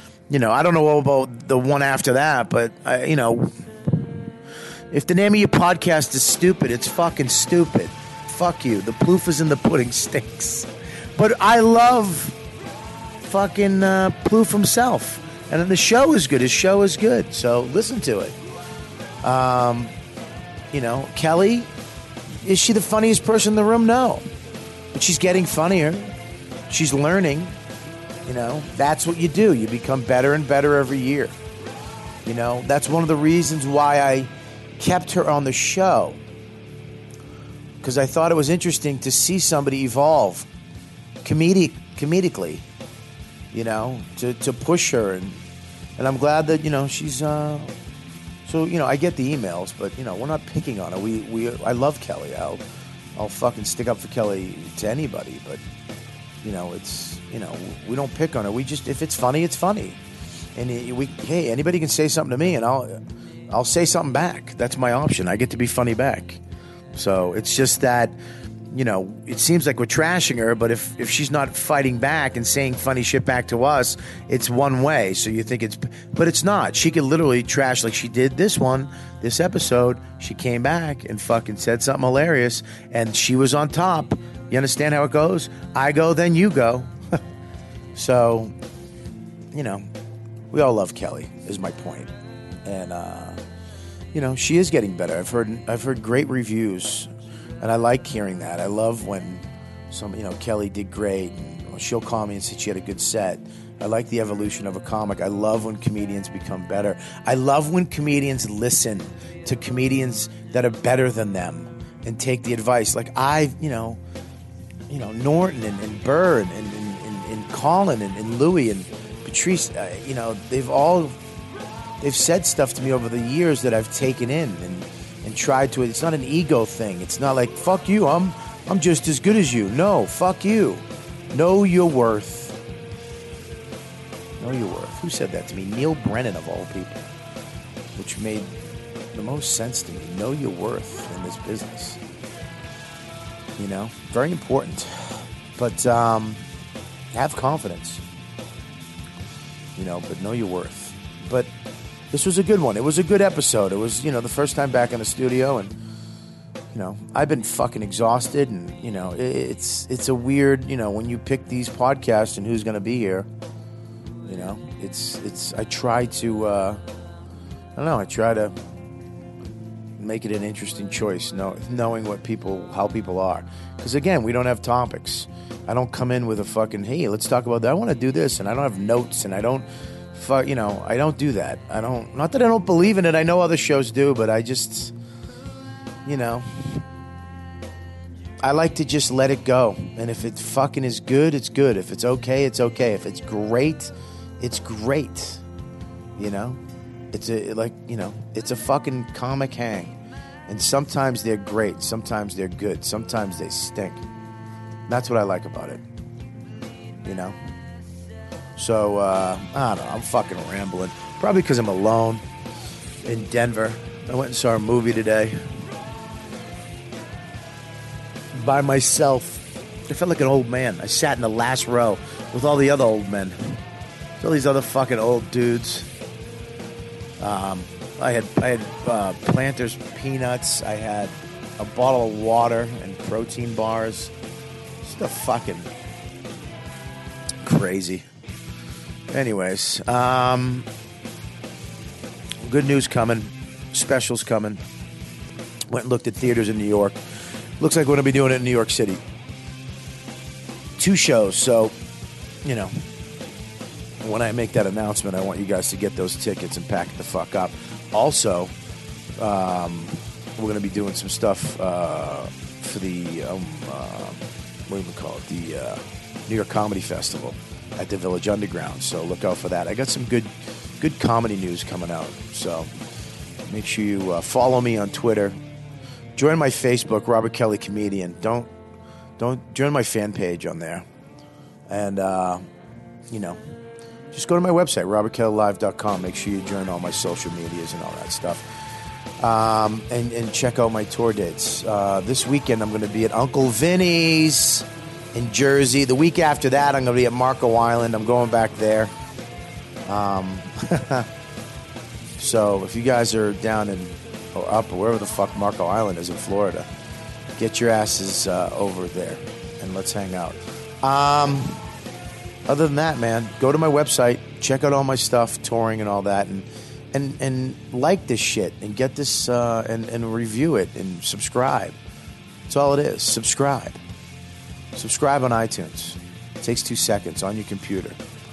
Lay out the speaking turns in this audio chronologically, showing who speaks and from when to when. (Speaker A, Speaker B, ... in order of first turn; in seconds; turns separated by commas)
Speaker A: 0.3-4.2, Speaker A: 4.9-12.3, Speaker A: 13.2-18.4, Speaker A: 19.2-19.9, Speaker A: 20.7-21.7, Speaker A: 22.4-24.2, Speaker A: 24.9-26.1, Speaker A: 26.7-27.5, Speaker A: 28.2-31.3, Speaker A: 32.2-36.2, Speaker A: 37.8-40.5, Speaker A: 41.2-42.6, Speaker A: 43.5-45.4, Speaker A: 46.0-47.7, Speaker A: 48.5-52.6, Speaker A: 53.1-55.6, Speaker A: 56.4-60.0, Speaker A: 60.5-63.0, Speaker A: 63.5-66.4, Speaker A: 66.9-68.2, Speaker A: 68.7-86.9, Speaker A: 87.9-88.5, Speaker A: 89.5-89.8, Speaker A: 90.5-92.1, Speaker A: 92.6-93.4, Speaker A: 94.1-97.1, Speaker A: 97.6-114.0, Speaker A: 114.9-121.2, Speaker A: 122.0-132.6, Speaker A: 134.4-137.0, Speaker A: 137.9-138.5, Speaker A: 139.1-142.0, Speaker A: 143.6-146.4, Speaker A: 147.1-148.0, Speaker A: 149.8-151.5, Speaker A: 152.1-155.7, Speaker A: 156.7-163.3, Speaker A: 164.2-166.8, Speaker A: 167.8-168.5, Speaker A: 170.0-184.9, Speaker A: 186.1-186.8, Speaker A: 188.4-195.4, Speaker A: 196.2-196.6, Speaker A: 197.1-199.9, Speaker A: 200.5-204.0, Speaker A: 204.9-205.8, Speaker A: 207.0-207.3, Speaker A: 208.6-212.2, Speaker A: 213.0-215.4, Speaker A: 218.3-223.6, Speaker A: 224.2-225.9, Speaker A: 227.2-234.1, Speaker A: 234.8-235.7, Speaker A: 237.4-238.0, Speaker A: 239.1-240.7, Speaker A: 242.4-244.6, Speaker A: 245.7-247.0, Speaker A: 247.6-249.0, Speaker A: 250.8-251.7, Speaker A: 252.4-252.8, Speaker A: 254.0-258.5, Speaker A: 259.2-272.7, Speaker A: 273.4-275.4, Speaker A: 276.1-278.5, Speaker A: 279.2-280.8, Speaker A: 281.7-282.4, Speaker A: 283.1-283.4, Speaker A: 284.1-288.4, Speaker A: 289.2-298.9, Speaker A: 299.9-301.1, Speaker A: 302.2-306.7, Speaker A: 307.4-311.6, Speaker A: 312.5-321.8, Speaker A: 322.5-323.8, Speaker A: 324.7-328.0